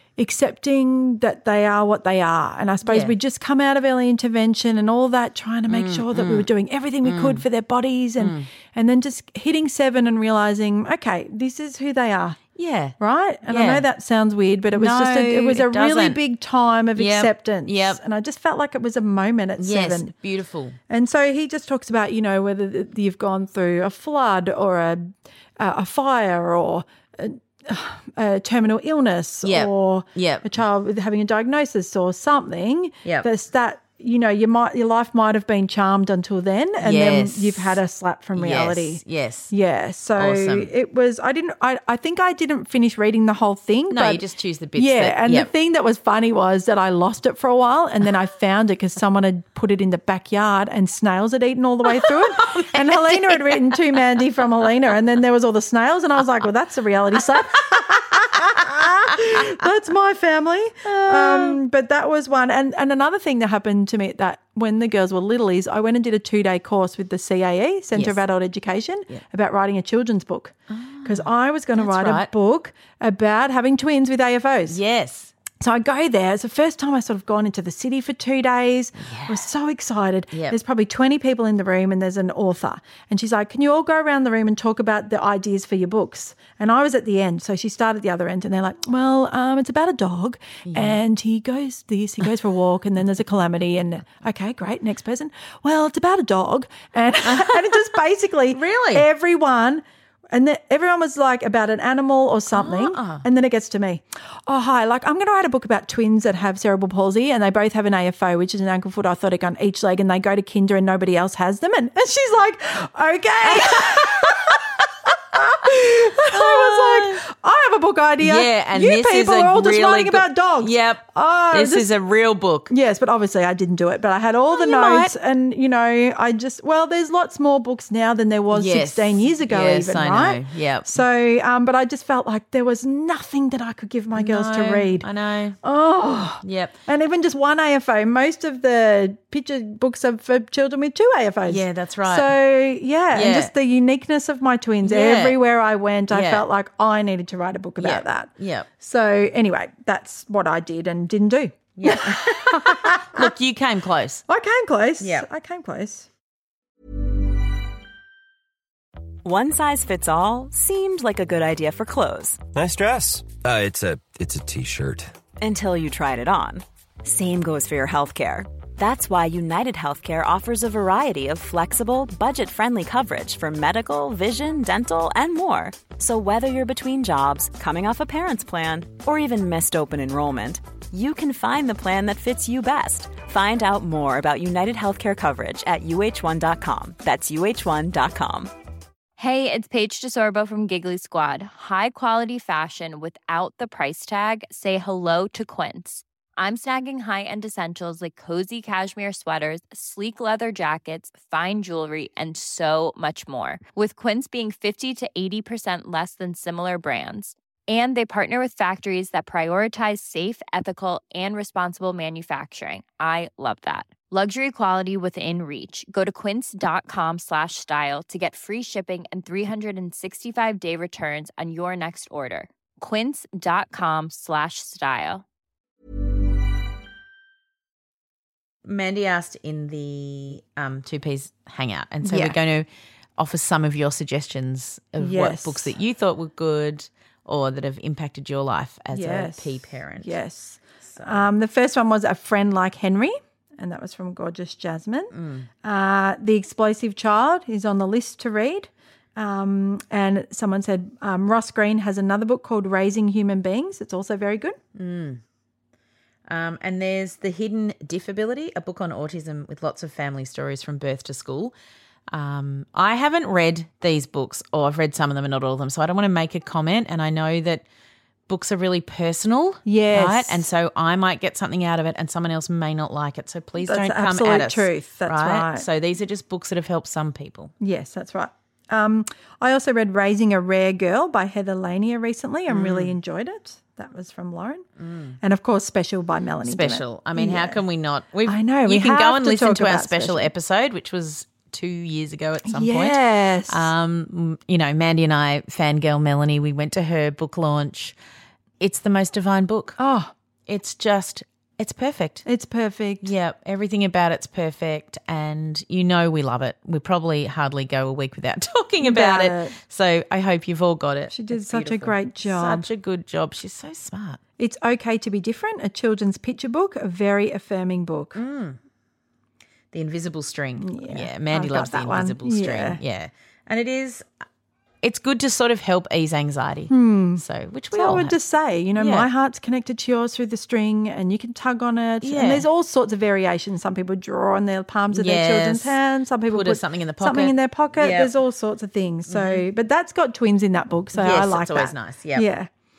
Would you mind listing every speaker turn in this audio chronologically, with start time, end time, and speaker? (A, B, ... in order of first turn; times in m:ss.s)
0:00.2-0:12.4 A
0:02.8-0:03.2 B
0:05.7-0:06.5 B
0:07.0-0:07.4 B
0:08.2-0:08.5 B
0:12.6-0:13.0 B
0:13.0-0:20.1 A
0:13.5-0:13.9 B
0:14.7-0:16.2 B
0:17.0-0:18.0 B
0:19.6-0:20.8 B
0:20.9-1:14.8 A
0:29.4-0:30.5 B
0:36.8-0:37.8 B
0:38.4-0:39.5 B
0:40.2-0:40.7 B
0:43.9-0:45.5 B
0:51.9-0:53.8 B
1:00.8-1:01.6 B
1:07.9-1:08.2 B
1:10.7-1:12.3 B
1:14.7-1:15.3 B
1:15.6-1:54.6 A
1:19.0-1:19.5 B
1:20.3-1:20.6 B
1:30.6-1:31.0 B
1:37.2-1:37.8 B
1:38.5-1:39.1 B
1:42.5-1:43.2 B
1:53.4-1:54.5 B
1:55.3-2:01.9 A
1:56.3-1:57.2 B
1:58.2-2:02.7 B
2:02.7-2:15.1 A
2:04.5-2:05.1 B
2:08.5-2:11.0 B
2:14.2-2:15.6 B
2:15.6-2:33.3 A
2:16.4-2:16.8 B
2:21.4-2:22.3 B
2:23.1-2:23.5 B
2:24.8-2:25.4 B
2:26.1-2:26.5 B
2:27.8-2:28.7 B
2:31.8-2:34.2 B
2:34.3-2:36.1 A
2:35.0-2:35.3 B
2:39.2-2:42.4 C
2:42.6-2:45.1 D
2:45.4-3:08.5 C
3:09.2-3:45.2 E
3:48.6-4:00.2 B
3:52.0-3:52.4 A
3:55.0-3:55.7 A
3:58.9-4:14.6 A
4:00.8-4:01.3 B
4:05.1-4:05.5 B
4:14.8-4:15.2 B
4:16.3-4:21.5 B
4:22.1-4:27.6 B
4:28.3-4:37.5 B
4:29.6-4:30.5 A
4:33.6-4:35.7 A
4:37.6-4:44.6 A
4:42.5-4:43.0 B
4:44.8-4:45.2 B
4:45.2-4:47.6 A
4:46.4-4:58.0 B
4:48.2-4:50.3 A
4:52.4-4:53.7 A
4:58.6-4:59.8 B
4:59.8-5:00.1 A
5:00.5-5:02.2 B
5:02.3-5:03.1 A
5:03.0-5:14.2 B
5:08.8-5:09.6 A
5:11.1-5:12.7 A
5:14.4-5:18.2 A
5:18.1-5:18.6 B
5:19.7-5:24.1 B
5:20.6-5:22.8 A
5:24.8-5:28.2 B
5:26.7-5:42.5 A
5:28.8-5:29.1 B
5:32.0-5:32.5 B
5:34.9-5:38.1 B
5:39.1-5:39.4 B
5:41.0-5:42.3 B